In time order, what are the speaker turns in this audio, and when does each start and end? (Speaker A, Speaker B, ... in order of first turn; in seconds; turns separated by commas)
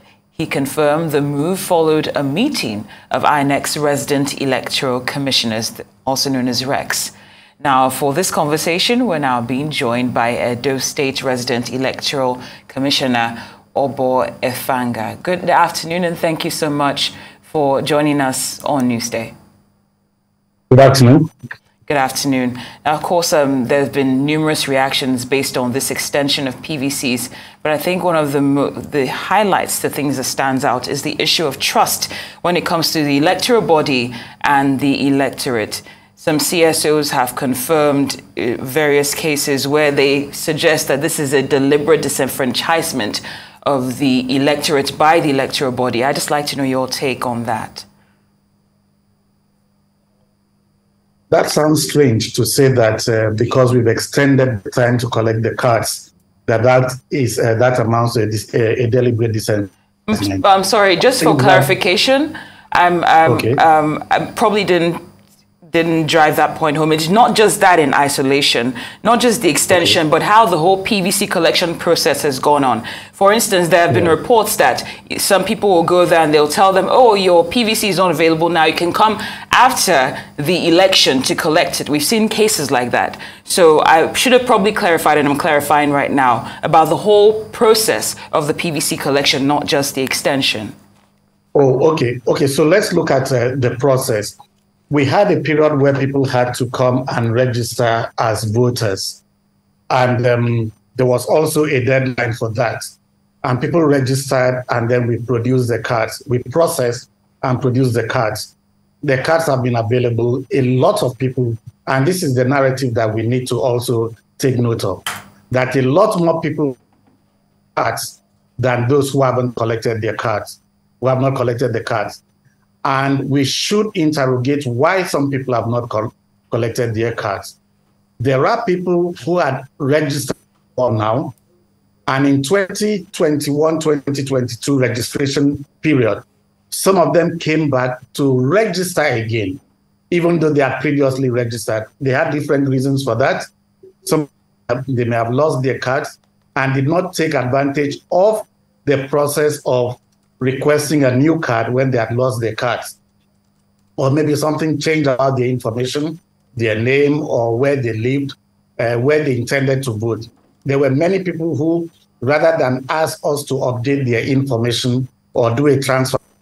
Speaker A: 0.3-19.3, Speaker B: 20.7-21.3, Speaker A: 21.9-47.9, Speaker B: 51.3-60.4, Speaker A: 60.1-65.0, Speaker B: 61.2-61.7, Speaker B: 63.2-63.6, Speaker A: 65.7-90.7, Speaker B: 69.7-70.0, Speaker B: 73.9-74.2, Speaker B: 91.5-94.4, Speaker B: 94.9-99.2, Speaker B: 99.9-116.8, Speaker B: 117.8-122.2, Speaker B: 122.8-127.5, Speaker B: 128.2-131.3, Speaker B: 132.1-143.5, Speaker B: 144.0-153.0, Speaker B: 154.0-166.2